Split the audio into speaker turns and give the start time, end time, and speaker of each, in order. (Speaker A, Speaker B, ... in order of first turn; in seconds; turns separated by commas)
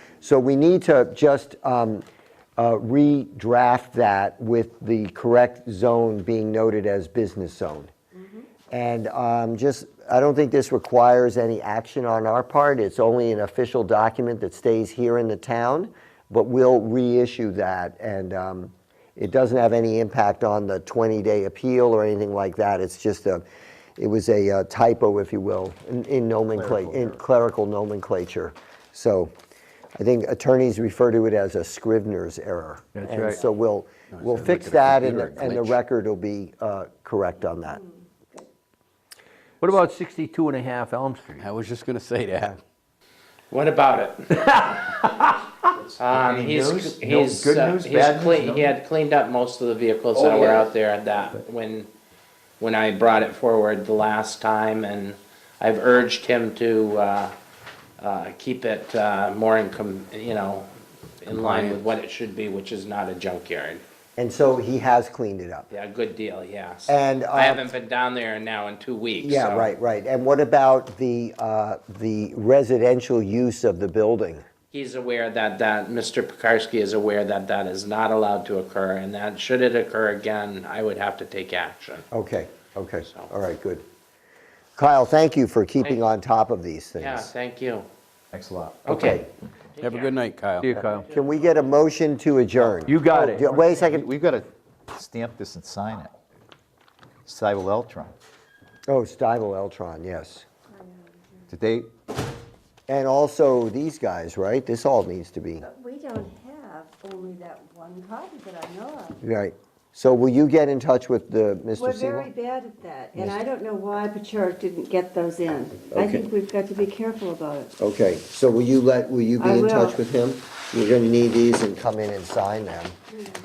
Speaker A: 0.2-2.0, Speaker A: 2.6-7.9, Speaker B: 8.2-8.5, Speaker A: 8.7-23.4, Speaker A: 24.0-29.3, Speaker A: 30.0-37.8, Speaker C: 33.0-33.4, Speaker D: 34.1-35.8, Speaker B: 37.8-38.4, Speaker C: 39.6-41.5, Speaker D: 41.4-42.6, Speaker E: 43.5-45.0, Speaker C: 44.4-45.3, Speaker F: 45.8-48.7, Speaker E: 46.0-51.9, Speaker E: 52.6-57.3, Speaker E: 58.0-60.7, Speaker E: 61.2-63.8, Speaker D: 61.3-61.8, Speaker A: 64.2-65.7, Speaker E: 65.7-69.7, Speaker A: 66.9-67.7, Speaker A: 69.2-74.5, Speaker E: 74.7-82.0, Speaker A: 82.1-83.8, Speaker A: 84.8-87.3, Speaker E: 87.0-87.9, Speaker F: 88.3-88.9, Speaker E: 88.9-90.2, Speaker A: 88.9-89.2, Speaker D: 89.8-90.7, Speaker C: 90.6-91.1, Speaker A: 90.7-94.1, Speaker E: 90.9-91.7, Speaker C: 92.8-93.5, Speaker F: 93.5-96.1, Speaker F: 97.2-98.1, Speaker A: 98.9-100.5, Speaker B: 100.7-101.4, Speaker F: 101.5-101.9, Speaker A: 102.9-105.7, Speaker B: 105.6-109.2, Speaker A: 109.2-112.3, Speaker B: 111.8-117.7, Speaker A: 115.9-116.3, Speaker A: 117.8-123.0, Speaker B: 119.4-120.0